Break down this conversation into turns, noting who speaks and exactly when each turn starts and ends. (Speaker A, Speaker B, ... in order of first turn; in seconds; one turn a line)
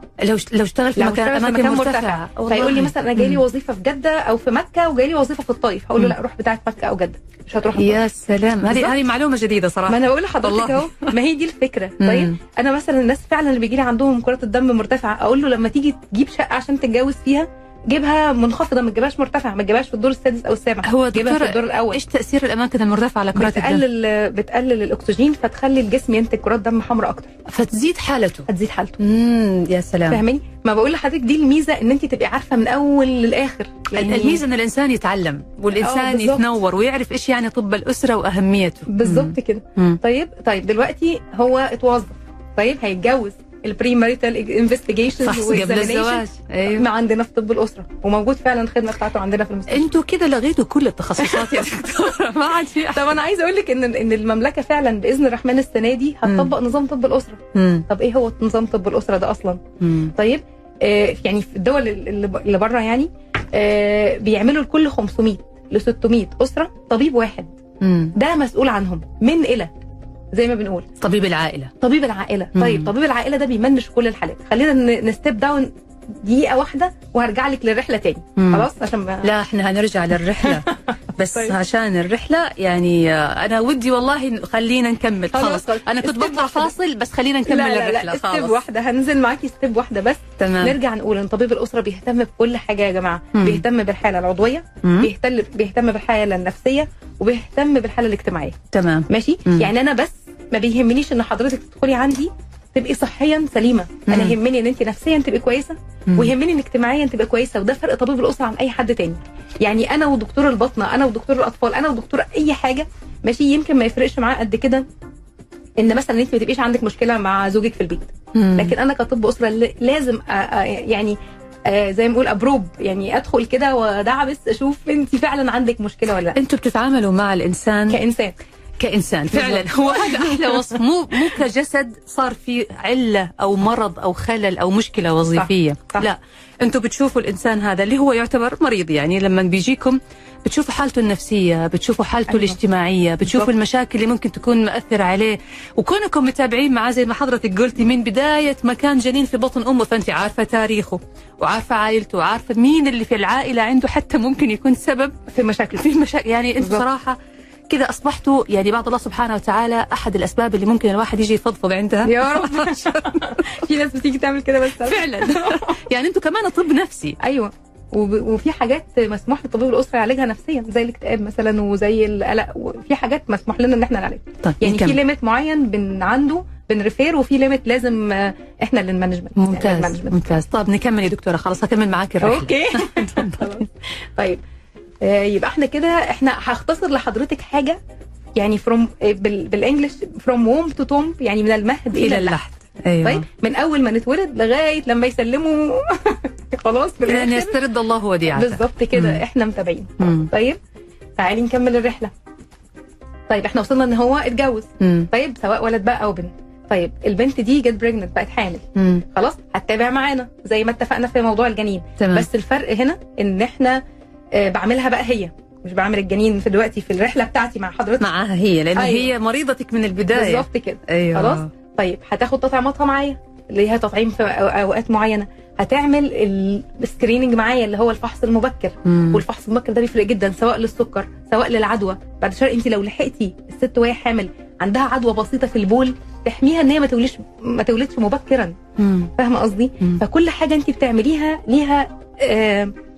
Speaker A: 0.2-3.4
Speaker B: 0.9-8.0
Speaker A: 7.7-11.1
Speaker B: 8.6-8.9
Speaker B: 9.9-22.0
Speaker A: 12.0-12.3
Speaker A: 20.8-23.8
Speaker B: 23.3-27.3
Speaker A: 27.5-28.5
Speaker B: 28.5-29.0
Speaker A: 29.0-30.2
Speaker B: 30.1-34.4
Speaker A: 33.9-40.0
Speaker B: 35.8-36.5
Speaker B: 38.9-49.9
Speaker A: 45.2-46.9
Speaker A: 49.7-53.2
Speaker B: 51.2-51.6
Speaker B: 52.9-59.6
Speaker A: 56.2-56.5
Speaker A: 57.5-57.8
Speaker A: 59.8-60.1
Speaker B: 60.1-67.5
Speaker A: 67.8-68.1
Speaker B: 68.1-69.7
Speaker B: 70.3-70.9
Speaker A: 71.0-71.7
Speaker B: 71.8-79.3
Speaker A: 72.5-72.9
Speaker A: 78.4-78.7
Speaker A: 79.2-88.6
Speaker B: 80.4-80.7
Speaker B: 85.3-86.7
Speaker B: 87.5-98.6
Speaker A: 90.4-90.8
Speaker A: 93.3-93.6
Speaker A: 94.8-95.1
Speaker A: 98.7-99.7
Speaker B: 99.1-114.8
Speaker A: 104.1-104.3
Speaker B: 115.8-126.4
Speaker A: 118.3-118.7
Speaker A: 126.3-128.0
Speaker B: 127.9-128.3
Speaker A: 128.8-155.2
Speaker B: 129.3-130.8
Speaker B: 135.3-136.1
Speaker B: 142.3-142.6
Speaker B: 155.3-155.8
Speaker A: 155.7-157.2
Speaker B: 156.6-156.8
Speaker A: 157.7-163.4
Speaker B: 162.0-165.8
Speaker A: 164.8-167.2
Speaker B: 167.2-180.2
Speaker A: 174.4-175.0
Speaker A: 179.4-183.6
Speaker B: 182.2-184.4
Speaker B: 185.0-187.8
Speaker B: 188.3-192.4
Speaker A: 191.9-193.2
Speaker B: 193.0-197.6
Speaker A: 197.1-199.2
Speaker B: 198.3-200.6
Speaker A: 200.0-200.3
Speaker B: 201.2-202.1
Speaker B: 203.3-213.8
Speaker A: 204.8-205.1
Speaker A: 208.8-209.0
Speaker A: 212.0-212.3
Speaker B: 214.3-218.1
Speaker A: 218.0-221.5
Speaker B: 218.7-219.1
Speaker B: 220.1-238.6
Speaker A: 228.8-229.2
Speaker A: 238.8-239.1
Speaker B: 239.1-242.7